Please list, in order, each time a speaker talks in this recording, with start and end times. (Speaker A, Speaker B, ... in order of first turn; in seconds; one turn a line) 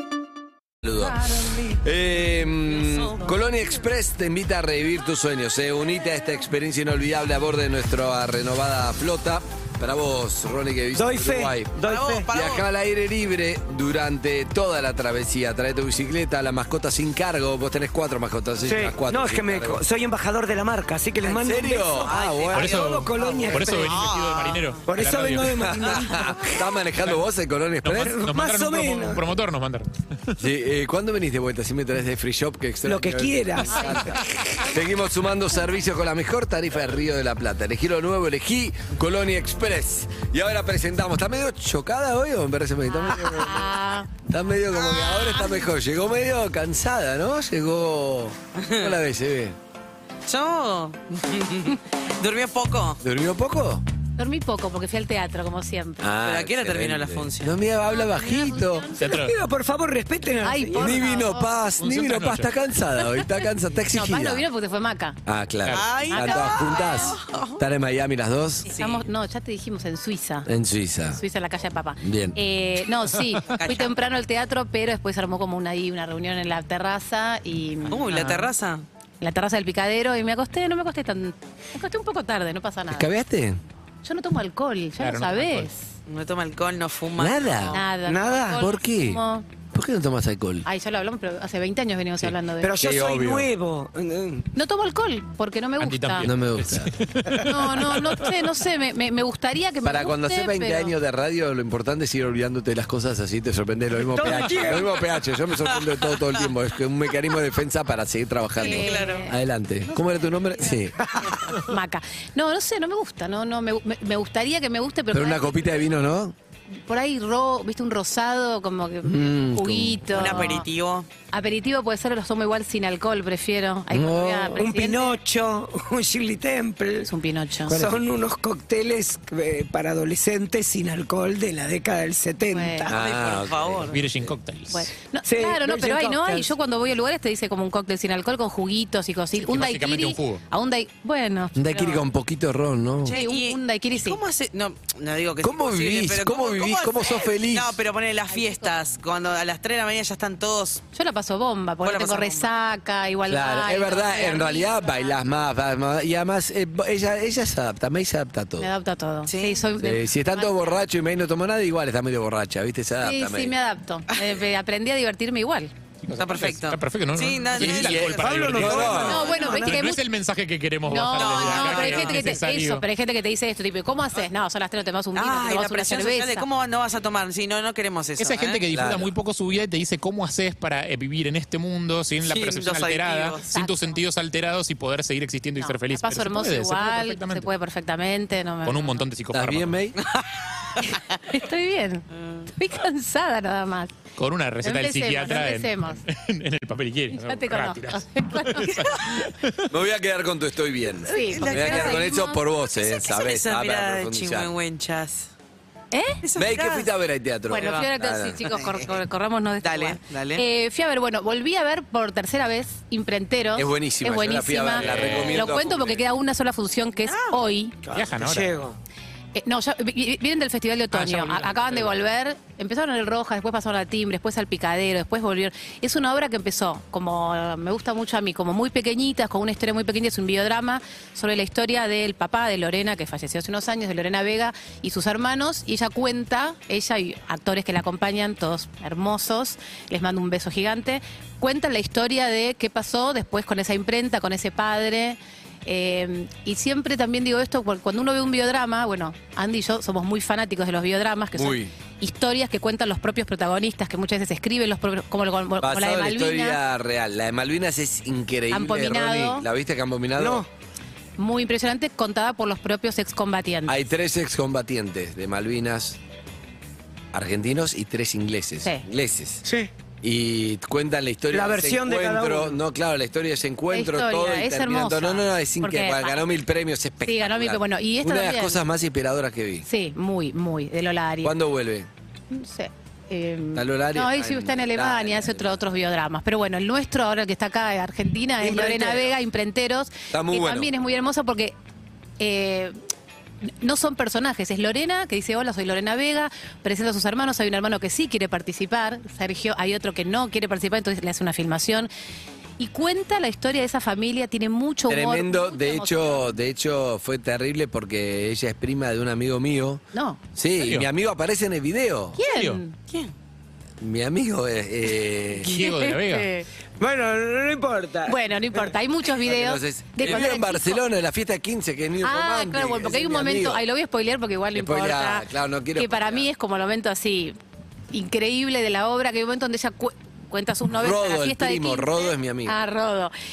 Speaker A: 0.8-11.8
Speaker B: 1.3-1.7
Speaker C: 2.7-3.4
Speaker D: 10.9-12.3
Speaker C: 11.8-12.7
Speaker A: 12.3-19.8
Speaker D: 18.6-24.1
Speaker A: 21.4-22.8
Speaker C: 22.0-24.8
Speaker E: 22.5-25.6
Speaker D: 24.9-26.8
Speaker A: 25.6-28.2
Speaker E: 27.8-30.4
Speaker D: 28.1-29.3
Speaker A: 30.4-43.7
Speaker D: 32.8-34.0
Speaker B: 33.7-34.0
Speaker E: 33.8-34.6
Speaker B: 43.0-44.1
Speaker A: 44.3-49.6
Speaker C: 44.9-45.5
Speaker C: 48.6-49.0
Speaker C: 50.2-53.0
Speaker A: 53.0-53.9
Speaker B: 54.2-56.0
Speaker A: 56.0-58.9
Speaker C: 56.2-57.5
Speaker B: 57.9-59.0
Speaker E: 59.0-59.3
Speaker D: 59.0-61.1
Speaker B: 60.4-61.5
Speaker A: 60.8-64.5
Speaker E: 61.8-62.5
Speaker B: 63.9-65.2
Speaker A: 65.3-68.7
Speaker C: 65.7-67.6
Speaker B: 66.1-67.2
Speaker C: 68.7-69.1
Speaker B: 68.7-70.5
Speaker A: 70.5-71.2
Speaker B: 71.1-78.5
Speaker A: 72.0-72.4
Speaker C: 73.5-73.9
Speaker C: 77.9-78.9
Speaker B: 79.2-83.1
Speaker A: 82.9-83.6
Speaker B: 84.0-85.9
Speaker E: 85.0-85.7
Speaker C: 86.1-87.8
Speaker A: 87.2-87.8
Speaker B: 87.7-89.5
Speaker D: 88.0-88.7
Speaker A: 88.5-89.2
Speaker A: 89.7-90.7
Speaker B: 90.7-92.8
Speaker A: 92.2-93.5
Speaker D: 92.6-94.5
Speaker B: 94.5-96.3
Speaker E: 95.8-98.3
Speaker A: 96.2-96.9
Speaker B: 97.4-100.9
Speaker A: 99.8-111.1
Speaker D: 104.0-104.9
Speaker C: 105.8-106.5
Speaker C: 108.6-109.3
Speaker B: 108.6-115.9
Speaker A: 115.1-116.3
Speaker B: 116.8-120.7
Speaker A: 119.0-120.5
Speaker C: 120.1-121.1
Speaker B: 121.3-125.2
Speaker A: 123.9-124.7
Speaker D: 124.6-127.1
Speaker B: 127.0-127.8
Speaker D: 127.7-133.0
Speaker B: 132.5-132.9
Speaker C: 132.9-134.1
Speaker A: 132.9-134.3
Speaker E: 133.9-134.9
Speaker B: 134.7-142.0
Speaker D: 135.2-136.5
Speaker E: 139.4-140.4
Speaker A: 141.6-143.2
Speaker C: 143.0-150.8
Speaker B: 143.1-144.2
Speaker A: 145.4-147.8
Speaker B: 148.3-148.7
Speaker B: 150.9-155.2
Speaker C: 151.8-152.5
Speaker A: 153.3-158.7
Speaker B: 158.6-160.8
Speaker C: 159.3-159.7
Speaker A: 159.8-163.5
Speaker B: 163.0-165.7
Speaker E: 166.0-172.8
Speaker C: 166.2-169.1
Speaker A: 167.6-169.2
Speaker D: 168.1-169.9
Speaker B: 169.0-170.1
Speaker B: 170.9-176.5
Speaker C: 171.2-172.3
Speaker C: 175.2-178.7
Speaker E: 178.2-187.5
Speaker A: 178.7-179.1
Speaker C: 182.2-183.4
Speaker B: 183.4-184.1
Speaker B: 185.6-189.0
Speaker E: 188.7-189.8
Speaker A: 189.3-190.0
Speaker C: 190.0-191.2
Speaker B: 190.8-193.9
Speaker E: 194.2-199.5
Speaker B: 194.6-196.0
Speaker B: 197.1-198.8
Speaker A: 199.7-204.5
Speaker B: 201.0-202.4
Speaker C: 201.3-202.2
Speaker C: 202.8-205.3
Speaker B: 205.9-206.2
Speaker C: 206.2-206.9
Speaker A: 206.4-208.5
Speaker B: 207.5-217.8
Speaker C: 207.5-207.9
Speaker C: 208.5-208.9
Speaker C: 209.6-210.4
Speaker A: 213.6-216.1
Speaker E: 214.8-215.5
Speaker C: 217.0-217.4
Speaker D: 217.8-218.8
Speaker E: 217.9-218.5
Speaker B: 219.3-256.6
Speaker E: 220.9-221.9
Speaker A: 251.3-251.7
Speaker A: 255.6-260.4
Speaker B: 258.5-259.5
Speaker D: 260.2-260.5
Speaker B: 261.2-263.8
Speaker A: 263.7-266.0
Speaker A: 267.1-269.4
Speaker D: 269.4-269.7
Speaker A: 270.0-279.7
Speaker D: 271.3-272.6
Speaker B: 273.7-276.2
Speaker B: 277.0-278.6
Speaker B: 279.6-281.3
Speaker A: 281.2-281.9
Speaker B: 282.3-291.5
Speaker A: 283.6-285.6
Speaker A: 288.4-289.2
Speaker A: 290.1-290.7
Speaker B: 292.2-292.8
Speaker B: 293.4-301.9
Speaker B: 302.6-306.4
Speaker A: 304.9-309.8
Speaker B: 309.9-310.2
Speaker A: 310.4-312.2
Speaker E: 310.6-310.9
Speaker B: 312.2-312.8
Speaker E: 312.2-312.6
Speaker A: 313.8-315.5
Speaker E: 315.4-316.3
Speaker B: 315.5-316.5
Speaker D: 316.8-318.7
Speaker B: 318.1-320.8
Speaker A: 319.2-323.6
Speaker B: 322.0-327.4
Speaker A: 324.5-326.3
Speaker B: 327.9-333.1
Speaker A: 330.7-332.6